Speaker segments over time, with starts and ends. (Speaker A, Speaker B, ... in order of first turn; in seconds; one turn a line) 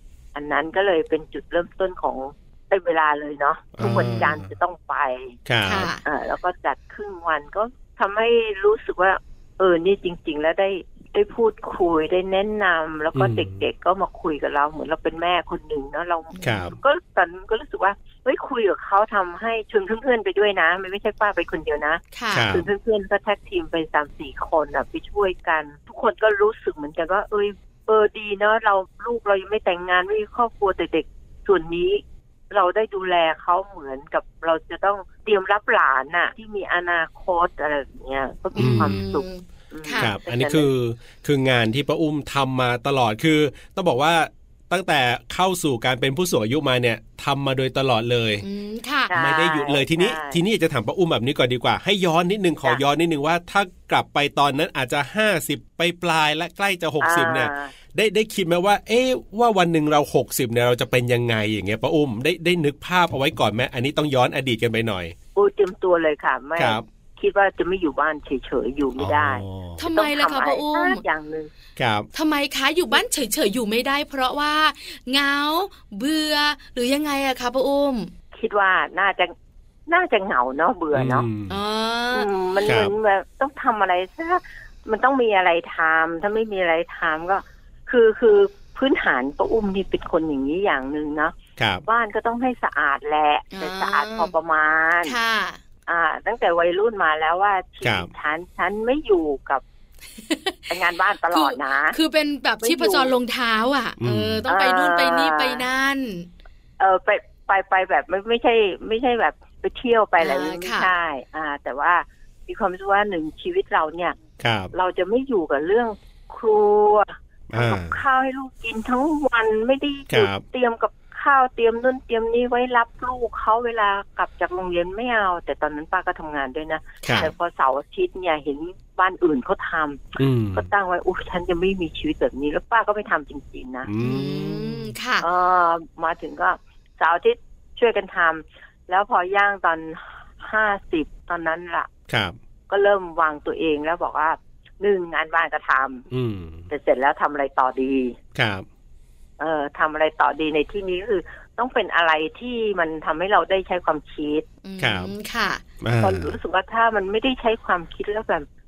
Speaker A: 0.3-5.4
Speaker B: 3.8-4.5
Speaker B: 5.5-5.9
Speaker C: 5.7-6.0
Speaker A: 6.0-40.7
Speaker B: 13.2-13.6
Speaker C: 16.3-16.7
Speaker B: 16.4-16.8
Speaker C: 22.1-22.5
Speaker B: 22.3-22.7
Speaker C: 38.5-40.1
Speaker B: 38.6-39.1
Speaker B: 40.0-48.5
Speaker C: 48.4-49.1
Speaker A: 49.1-50.4
Speaker B: 49.1-65.1
Speaker A: 57.0-57.7
Speaker A: 65.3-71.5
Speaker B: 66.6-66.8
Speaker B: 69.0-69.8
Speaker C: 69.8-71.0
Speaker B: 71.8-72.1
Speaker C: 72.1-78.1
Speaker A: 78.3-79.3
Speaker A: 79.9-81.3
Speaker B: 80.9-81.6
Speaker C: 81.5-82.3
Speaker A: 82.1-91.3
Speaker B: 82.7-82.9
Speaker B: 91.6-91.8
Speaker A: 91.9-95.2
Speaker C: 93.5-94.3
Speaker C: 95.1-95.6
Speaker A: 95.9-99.6
Speaker B: 97.8-98.1
Speaker C: 100.2-100.7
Speaker A: 100.7-102.0
Speaker C: 101.3-106.3
Speaker A: 102.6-103.1
Speaker B: 104.0-104.5
Speaker A: 104.5-105.6
Speaker A: 106.8-114.2
Speaker C: 110.2-110.9
Speaker B: 114.4-114.7
Speaker A: 114.7-133.9
Speaker B: 117.5-118.0
Speaker B: 120.1-120.4
Speaker B: 127.0-127.3
Speaker B: 130.2-130.7
Speaker B: 133.9-134.9
Speaker C: 134.0-135.3
Speaker A: 135.2-141.9
Speaker B: 142.1-142.3
Speaker A: 142.7-146.1
Speaker B: 146.1-146.7
Speaker A: 146.7-148.2
Speaker B: 148.3-148.7
Speaker A: 149.4-154.5
Speaker C: 154.6-155.6
Speaker B: 154.8-155.1
Speaker B: 155.8-156.3
Speaker A: 156.0-158.5